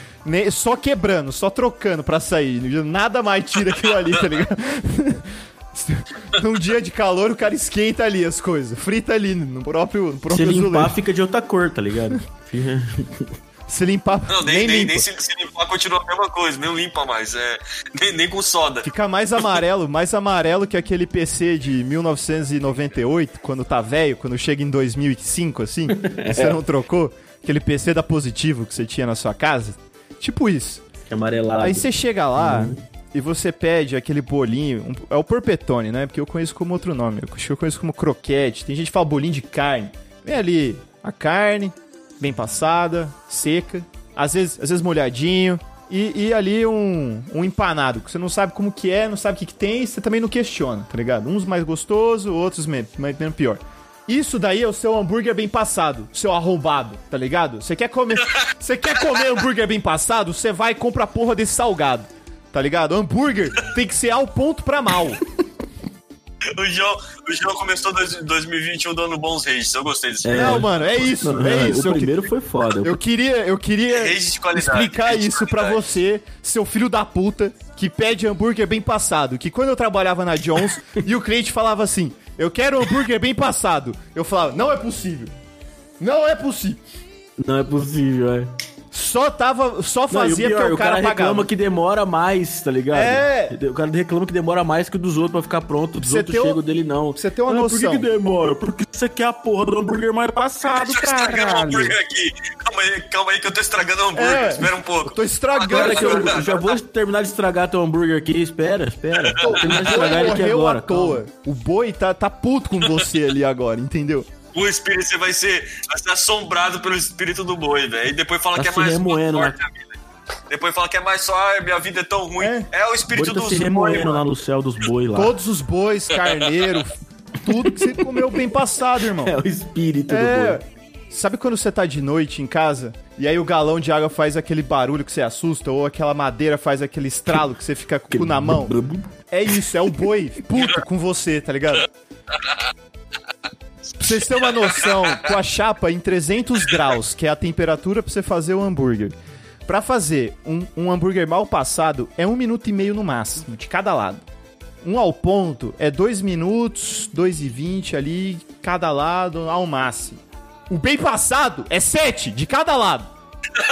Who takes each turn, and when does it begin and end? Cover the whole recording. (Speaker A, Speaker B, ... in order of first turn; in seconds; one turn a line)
Speaker A: 0.2-10.9
Speaker B: 10.3-13.3
Speaker A: 13.7-15.1
Speaker C: 14.3-18.9
Speaker A: 18.8-30.9
Speaker B: 25.9-26.6
Speaker B: 31.1-32.8
Speaker A: 31.6-65.2
Speaker C: 66.5-70.7
Speaker B: 70.2-73.0
Speaker A: 70.3-72.2
Speaker A: 72.8-85.3
Speaker C: 73.9-75.8
Speaker A: 86.0-86.8
Speaker B: 87.4-88.5
Speaker A: 88.9-91.5
Speaker B: 90.1-100.8
Speaker A: 92.9-93.6
Speaker A: 96.0-96.6
Speaker A: 97.2-98.1
Speaker A: 100.4-102.0
Speaker C: 100.9-106.7
Speaker A: 104.1-106.5
Speaker B: 105.6-111.2
Speaker C: 109.2-110.2
Speaker A: 109.4-114.3
Speaker C: 114.5-119.9
Speaker B: 118.5-119.6
Speaker C: 120.5-124.2
Speaker A: 122.4-122.7
Speaker B: 123.1-125.4
Speaker A: 125.1-129.3
Speaker C: 126.1-126.8
Speaker B: 127.5-128.4
Speaker B: 129.2-130.6
Speaker A: 130.1-138.8
Speaker B: 138.1-139.1
Speaker A: 139.3-141.9
Speaker A: 144.0-154.2
Speaker C: 144.6-145.1
Speaker A: 154.8-163.1